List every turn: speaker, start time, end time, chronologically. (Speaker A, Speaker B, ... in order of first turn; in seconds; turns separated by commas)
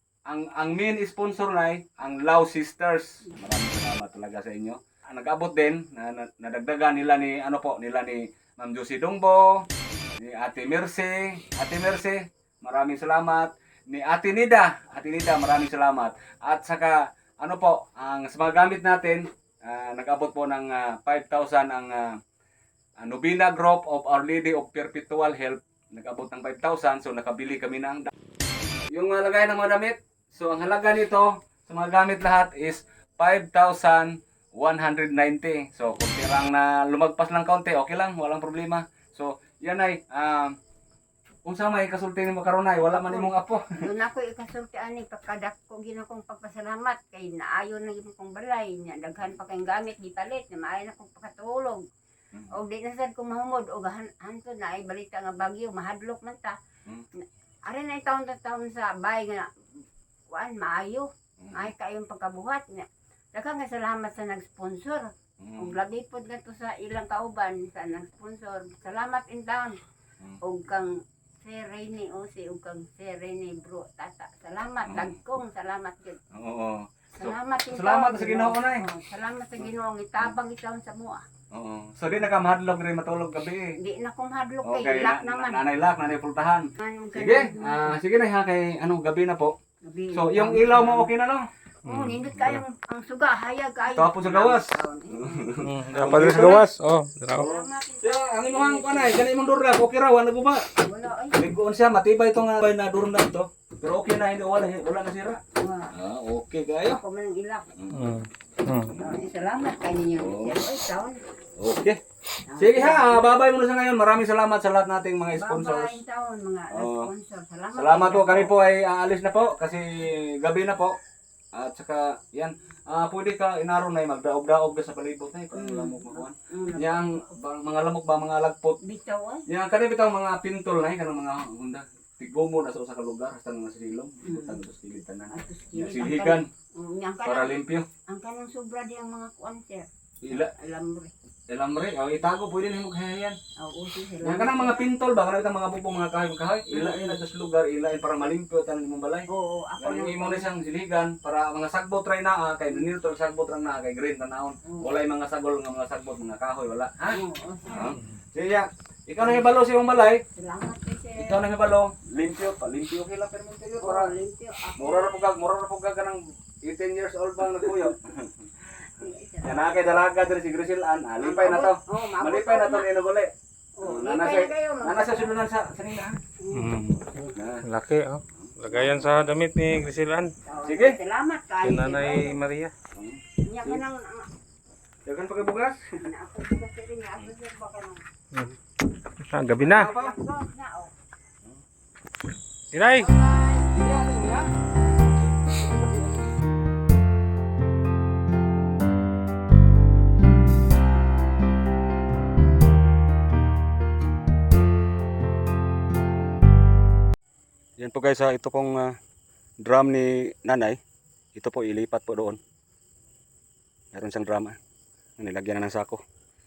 Speaker A: 0.2-22.2, Speaker A: 23.0-28.1, Speaker A: 28.9-40.5, Speaker A: 41.4-43.9, Speaker B: 42.8-51.8, Speaker B: 52.5-56.6, Speaker B: 57.6-69.8, Speaker A: 61.4-61.7, Speaker A: 65.4-65.8, Speaker B: 70.4-76.2, Speaker A: 74.8-75.1, Speaker A: 76.3-78.8, Speaker B: 77.1-81.2, Speaker A: 81.5-83.7, Speaker B: 83.8-85.6, Speaker A: 84.6-89.5, Speaker B: 86.8-88.0, Speaker B: 89.8-91.1, Speaker A: 90.1-91.5, Speaker B: 91.8-95.6, Speaker C: 91.8-92.6, Speaker A: 93.9-96.7, Speaker C: 95.6-97.5, Speaker B: 97.3-99.3, Speaker A: 97.3-100.7, Speaker B: 100.8-101.4, Speaker A: 101.3-105.4, Speaker B: 105.6-105.9, Speaker A: 105.9-107.0, Speaker B: 106.8-107.8, Speaker A: 107.8-108.2, Speaker C: 107.9-108.9, Speaker B: 108.9-111.2, Speaker A: 110.2-110.8, Speaker A: 111.6-112.0, Speaker B: 112.5-113.3, Speaker A: 112.6-116.0, Speaker B: 115.3-118.5, Speaker A: 116.7-117.1, Speaker A: 117.7-121.0, Speaker A: 121.5-128.8, Speaker B: 125.5-127.2, Speaker B: 128.8-129.5, Speaker A: 129.5-136.5, Speaker B: 134.2-134.6, Speaker B: 135.3-141.1, Speaker A: 137.2-137.9, Speaker A: 140.2-140.5, Speaker A: 141.5-143.4, Speaker B: 143.6-144.9, Speaker A: 144.2-149.3, Speaker B: 146.7-147.2, Speaker B: 149.3-150.5, Speaker A: 149.8-160.2, Speaker B: 154.6-154.9, Speaker B: 157.1-158.0, Speaker B: 160.3-161.4, Speaker A: 161.2-164.1, Speaker B: 163.8-165.1, Speaker A: 164.8-168.8, Speaker B: 168.9-170.0, Speaker A: 169.4-176.2, Speaker B: 171.2-172.9, Speaker B: 173.8-175.4, Speaker B: 176.4-177.3, Speaker C: 176.5-180.3, Speaker A: 177.3-177.7, Speaker A: 178.4-179.1, Speaker B: 180.4-182.4, Speaker A: 180.6-181.0, Speaker C: 181.6-182.7, Speaker A: 182.9-183.8, Speaker B: 183.4-184.3, Speaker A: 185.1-186.0, Speaker B: 186.0-188.1, Speaker C: 189.2-189.9, Speaker A: 189.6-190.1, Speaker B: 189.6-190.9, Speaker C: 192.7-193.1, Speaker A: 193.1-194.5, Speaker A: 195.4-196.3, Speaker A: 207.8-209.0, Speaker A: 209.6-210.8, Speaker A: 211.3-212.4, Speaker A: 213.9-214.6, Speaker A: 215.2-216.0